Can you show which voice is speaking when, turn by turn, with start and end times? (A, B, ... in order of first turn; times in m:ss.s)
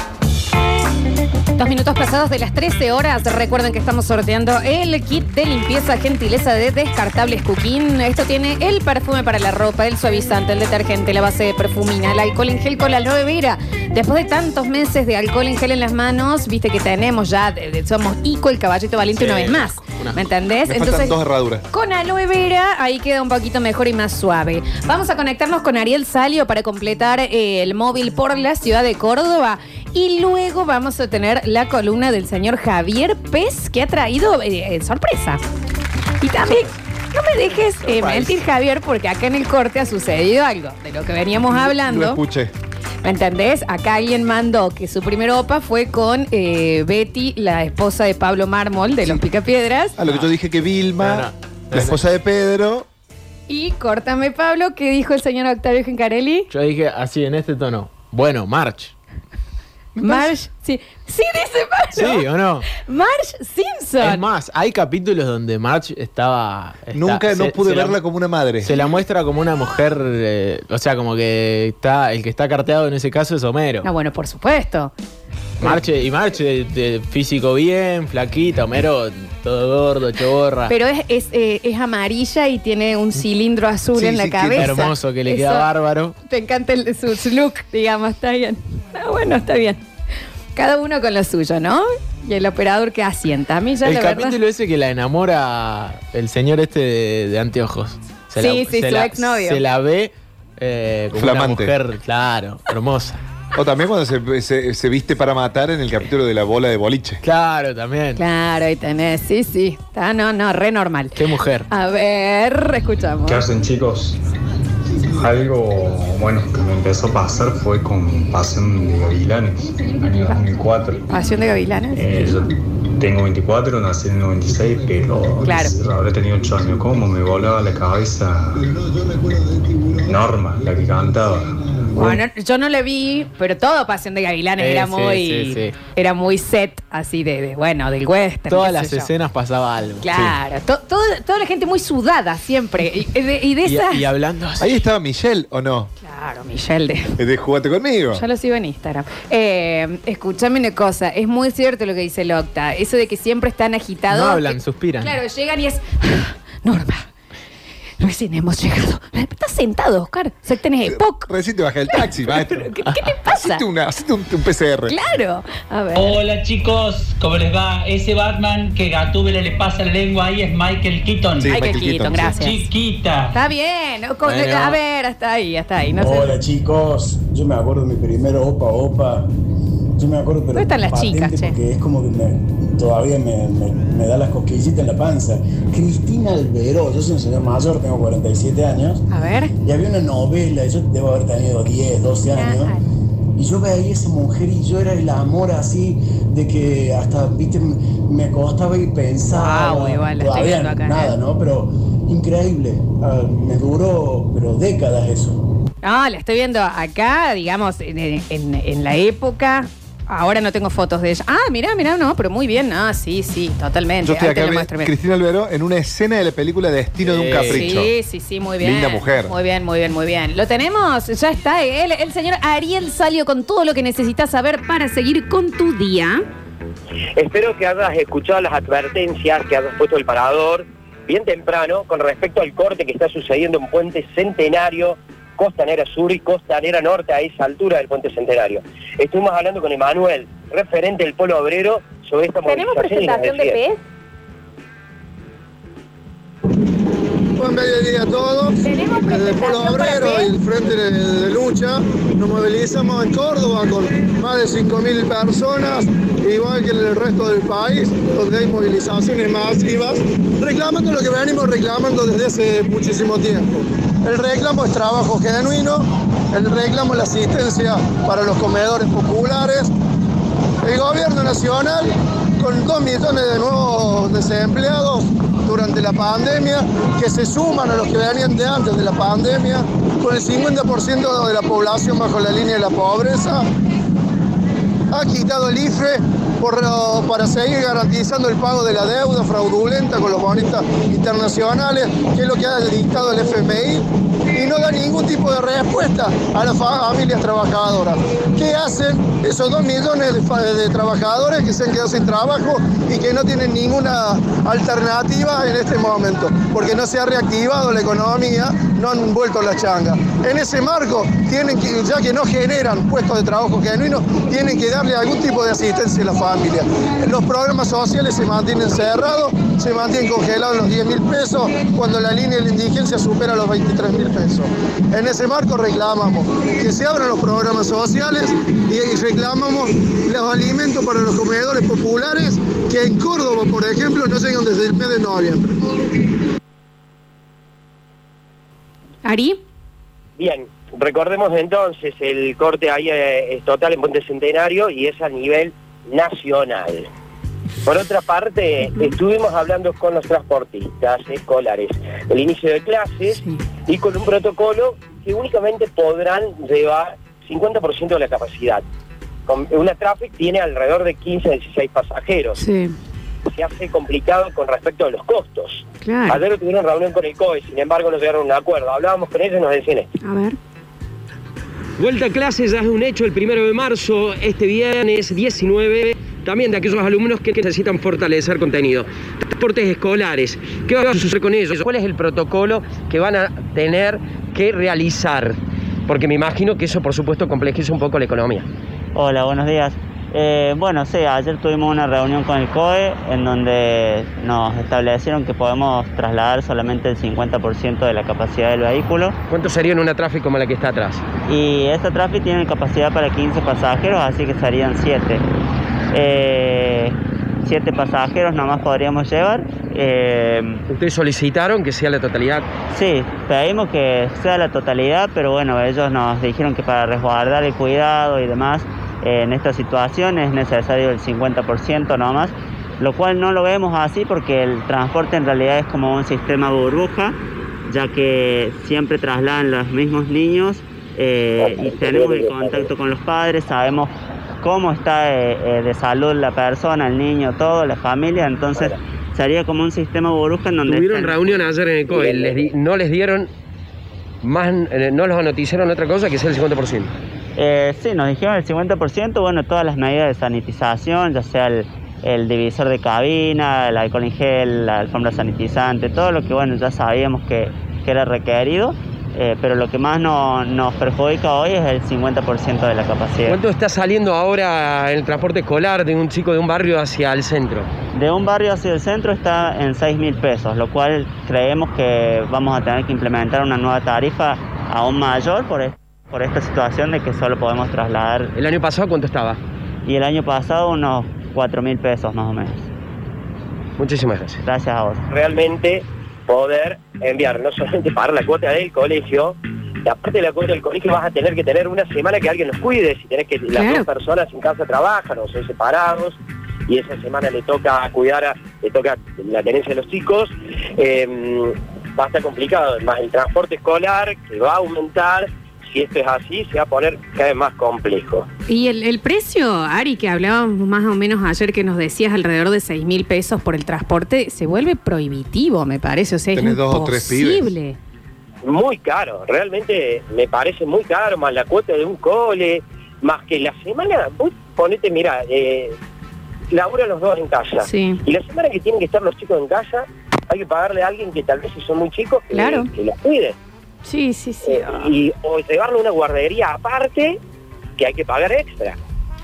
0:01.6-0:21.2 A
0:19.1-0:20.2 B
0:20.7-0:21.6 C
0:21.7-0:35.4 A
0:36.2-0:42.2 A
0:41.5-0:42.5 C
0:43.0-0:49.9 A
0:50.0-0:52.9 C
0:51.0-0:52.0 B
0:53.5-0:56.5 A
0:56.5-0:58.9 B
1:00.0-1:00.3 C
1:00.0-1:02.2 A
1:02.0-1:02.7 B
1:02.7-1:04.2 A
1:04.0-1:08.0 B
1:06.9-1:08.7 C
1:08.6-1:13.9 B
1:13.8-1:14.9 A
1:15.6-1:20.7 B
1:20.7-1:25.7 A
1:23.9-1:24.9 C
1:24.6-1:26.1 B
1:26.2-1:29.8 A
1:30.6-1:34.4 A
1:33.8-1:43.2 B
1:38.4-1:39.6 A
1:41.1-1:41.7 C
1:43.5-1:47.2 C
1:47.2-1:48.2 B
1:48.2-1:51.2 A
1:51.2-1:51.7 B
1:51.7-1:53.4 A
1:53.2-1:54.2 D
1:55.2-2:01.1 D
2:01.1-2:02.3 A
2:01.9-2:08.8 D
2:05.4-2:05.7 A
2:10.0-2:12.2 D
2:12.0-2:19.1 A
2:14.6-2:15.8 B
2:18.5-2:20.3 B
2:20.0-2:24.0 A
2:23.6-2:24.7 B
2:24.6-2:25.9 C
2:26.0-2:27.2 A
2:27.2-2:28.2 C
2:28.1-2:37.1 A
2:34.1-2:35.1 B
2:38.0-2:41.3 A
2:40.8-2:42.7 C
2:41.9-2:43.6 A
2:43.2-2:44.9 C
2:44.9-2:46.2 A
2:45.9-2:51.6 E
2:51.4-2:52.4 C
2:51.5-2:52.7 A
2:52.3-2:53.4 E
2:53.3-2:56.4 A
2:54.2-2:54.8 B
2:56.0-2:59.3 F
3:00.0-3:09.0 F
3:00.5-3:01.6 A
3:09.1-3:09.5 A
3:09.6-3:12.7 F
3:12.3-3:12.8 A
3:13.4-3:25.4 F
3:19.3-3:21.1 A
3:25.8-3:34.9 A
3:34.0-3:37.9 C
3:37.0-3:37.7 B
3:37.5-3:46.2 A
3:38.6-3:39.3 C
3:47.2-4:03.6 G
4:02.4-4:03.8 A
4:07.4-4:29.7 H
4:08.6-4:10.3 A
4:30.6-4:43.5 H
4:44.9-5:35.5 H
5:39.0-5:39.4 A
5:40.2-5:46.9 G
5:47.6-5:58.6 G
5:53.1-5:53.4 A
5:59.3-6:02.4 G
6:02.4-6:02.7 A
6:03.3-6:09.9 G
6:05.8-6:06.2 A
6:10.0-6:10.4 A
6:11.8-6:28.5 I
6:28.9-6:39.2 J
6:39.3-6:41.1 I
6:41.2-6:45.2 J
6:45.9-6:50.6 J
6:50.7-6:52.5 I
6:52.7-7:07.2 J
7:07.7-7:21.3 J
7:11.4-7:12.7 G
7:20.6-7:23.3 I
7:21.9-7:22.4 G
7:24.2-7:26.9 I
7:27.4-7:43.4 J
7:43.2-7:47.7 I
7:47.9-7:58.3 J
7:58.4-7:59.4 I
7:59.8-8:02.7 J
8:03.8-8:04.4 I
8:04.4-8:05.0 J
8:05.1-8:28.3 G
8:13.5-8:13.9 A
8:28.5-8:37.8 A
8:36.3-8:37.5 C
8:38.4-8:45.8 G
8:46.5-8:53.4 G
8:47.6-8:48.0 A
8:52.3-8:52.7 A
8:53.8-8:54.9 A
8:54.4-8:57.2 G
8:57.8-8:58.8 G